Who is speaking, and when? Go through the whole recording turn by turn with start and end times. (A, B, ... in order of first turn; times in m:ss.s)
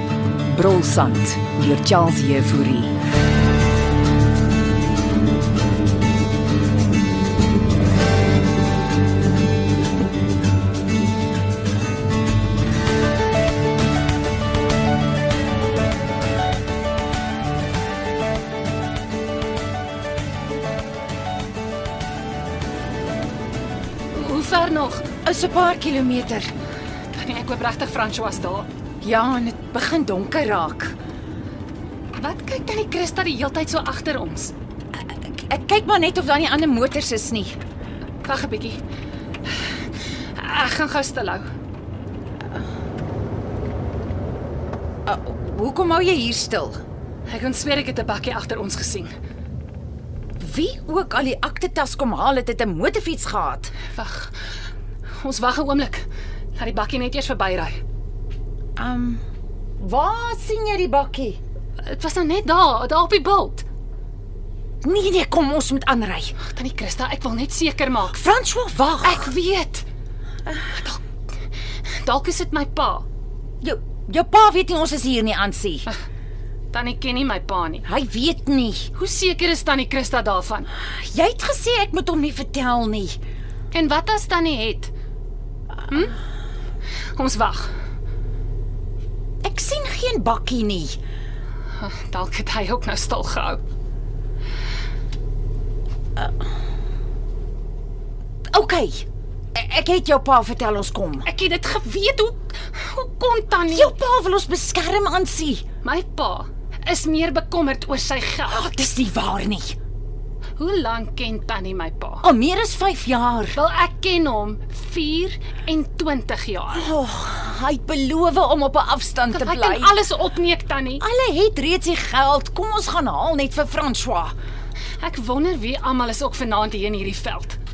0:00.5-0:02.9 A
0:24.1-0:25.1 B
0:25.2-0:26.5 A
0:27.1-0:28.7 B
0:29.0-0:31.0 A
0:32.2-0:34.5 B
0:35.0-0:37.6 A
0:38.2-0:38.8 B
0:40.4-0:41.5 B
0:45.1-0:46.8 A
0:47.3-0:49.1 B
0:50.4-0:53.7 A
0:53.9-0:54.4 B
0:55.2-0:57.8 B
0:58.8-0:59.2 A
0:59.8-1:01.4 A
1:01.8-1:03.6 B
1:04.8-1:06.3 A
1:06.4-1:08.2 B
1:08.1-1:09.3 A
1:09.0-1:09.9 B
1:10.7-1:11.0 B
1:12.0-1:13.0 B
1:13.6-1:15.9 A
1:16.7-1:17.9 B
1:17.8-1:18.9 A
1:19.0-1:20.7 B
1:20.8-1:23.2 A
1:23.7-1:24.9 B
1:25.9-1:26.2 B
1:27.2-1:27.7 B
1:29.4-1:31.0 A
1:31.8-1:33.6 B
1:38.5-1:41.3 A
1:41.3-1:43.9 B
1:43.7-1:45.6 A
1:45.8-1:48.7 B
1:48.5-1:49.8 A
1:50.6-1:52.2 B
1:52.2-1:53.6 A
1:53.6-1:56.9 B
1:56.7-1:59.9 A
1:59.3-2:01.0 B
2:01.0-2:04.3 A
2:05.0-2:07.6 B